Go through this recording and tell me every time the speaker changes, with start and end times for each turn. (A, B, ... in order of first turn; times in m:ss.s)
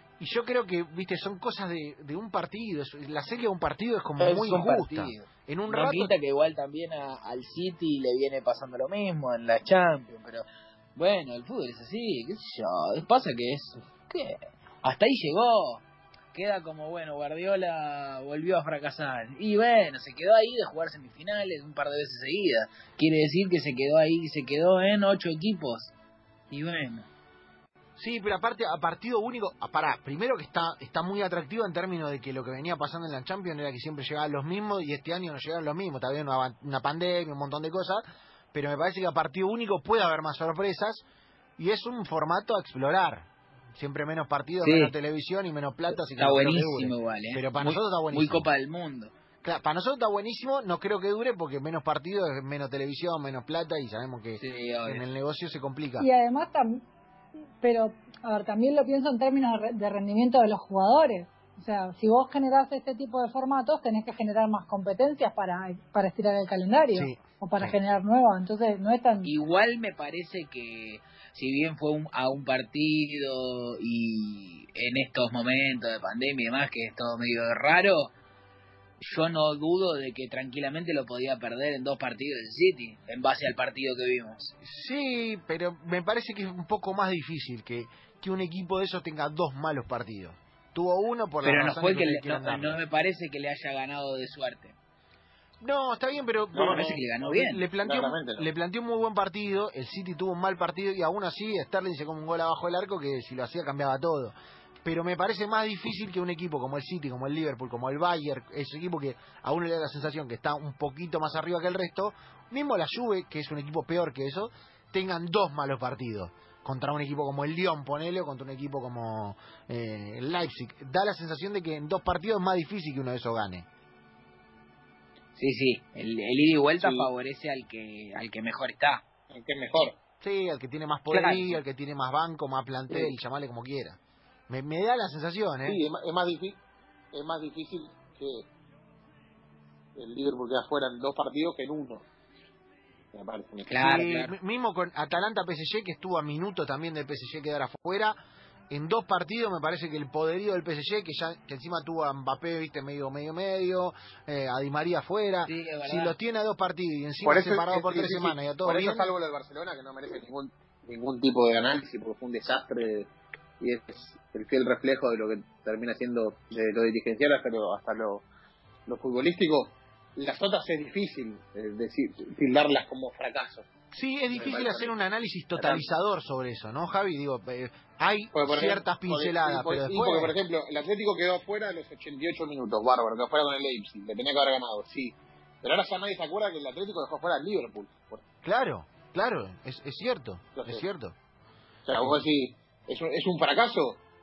0:00.2-0:06.2 A
0:04.2-0:25.9 B
0:26.5-0:27.1 B
0:28.0-0:41.0 A
0:41.6-0:48.5 A
0:44.6-0:44.9 B
0:46.2-0:49.1 B
0:49.4-0:56.1 A
0:54.4-0:55.0 B
0:56.0-0:56.8 C
0:57.6-1:09.3 C
1:06.9-1:07.8 A
1:09.2-1:18.1 B
1:19.0-1:24.5 B
1:24.6-1:32.8 A
1:31.4-1:34.8 B
1:35.6-2:03.7 A
1:36.5-1:37.0 D
1:36.6-1:37.6 B
1:37.8-1:38.5 D
2:05.4-2:09.0 B
2:06.8-2:07.1 D
2:09.3-2:10.0 D
2:10.2-2:14.0 A
2:11.1-2:11.6 B
2:14.5-2:15.8 A
2:15.7-2:16.6 D
2:17.1-2:18.5 D
2:20.0-2:22.0 D
2:23.1-2:23.8 D
2:23.7-2:24.3 B
2:23.8-2:28.2 A
2:28.7-2:39.1 A
2:35.5-2:36.1 B
2:37.2-2:48.2 D
2:48.9-2:53.7 D
2:53.9-3:00.4 A
2:54.3-2:54.9 D
2:55.6-2:55.9 D
2:58.4-3:08.2 D
3:08.4-3:11.2 A
3:10.6-3:10.8 D
3:11.9-3:14.0 D